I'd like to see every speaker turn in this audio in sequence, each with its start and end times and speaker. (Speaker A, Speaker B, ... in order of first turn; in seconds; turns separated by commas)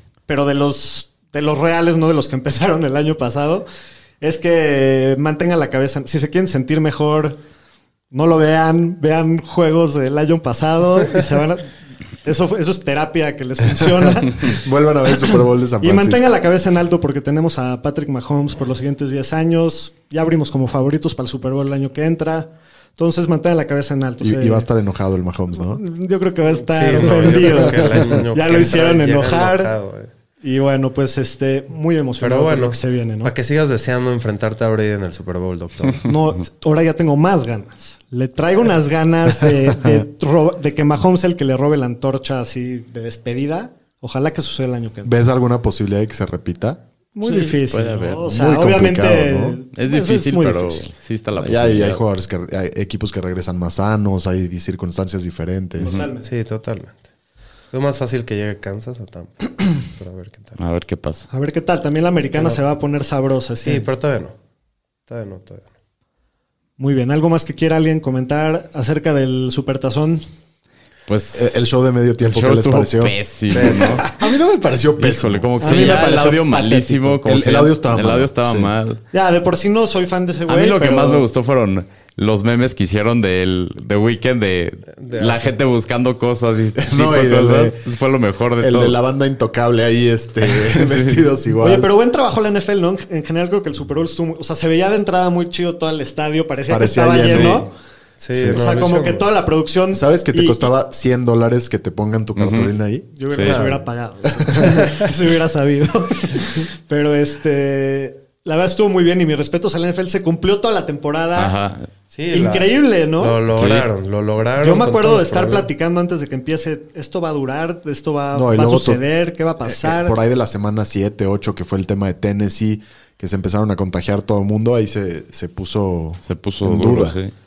Speaker A: 0.3-3.7, Speaker A: 4.2-7.4, Speaker A: 8.1-14.6, Speaker B: 14.3-16.2, Speaker A: 15.8-24.7, Speaker B: 24.2-25.8, Speaker A: 25.6-29.7, Speaker C: 26.6-30.1, Speaker A: 30.4-33.3, Speaker C: 32.2-36.1, Speaker A: 36.0-45.1, Speaker B: 39.5-40.0, Speaker B: 45.0-46.8, Speaker A: 47.1-50.9, Speaker D: 47.2-48.3, Speaker B: 48.2-49.6, Speaker D: 49.8-52.0, Speaker B: 51.4-56.0, Speaker A: 55.8-56.3, Speaker C: 56.2-57.0, Speaker C: 57.7-60.6, Speaker D: 60.6-61.3, Speaker A: 61.3-63.9, Speaker C: 63.6-64.4, Speaker C: 65.1-65.7, Speaker A: 66.8-70.2, Speaker D: 71.1-71.6, Speaker B: 71.3-76.0, Speaker D: 72.2-74.1, Speaker C: 73.5-74.0, Speaker D: 75.0-79.0, Speaker A: 75.6-77.1, Speaker B: 77.2-78.7, Speaker A: 79.1-81.2, Speaker D: 80.5-89.0, Speaker C: 85.0-85.6, Speaker B: 86.8-87.8, Speaker B: 88.6-91.9, Speaker D: 90.4-91.2, Speaker A: 91.6-97.7, Speaker B: 96.7-97.7, Speaker C: 97.3-97.6, Speaker C: 98.2-99.3, Speaker B: 98.3-98.6, Speaker A: 98.5-100.7, Speaker B: 99.9-103.1, Speaker D: 102.4-102.7, Speaker A: 103.2-111.5, Speaker D: 103.3-103.6, Speaker C: 103.4-103.8, Speaker B: 104.4-104.8, Speaker D: 111.4-111.9, Speaker C: 112.1-115.7, Speaker A: 112.3-113.4, Speaker D: 113.5-113.9, Speaker A: 114.6-120.2, Speaker B: 118.3-119.0, Speaker B: 119.7-127.2, Speaker D: 126.3-127.3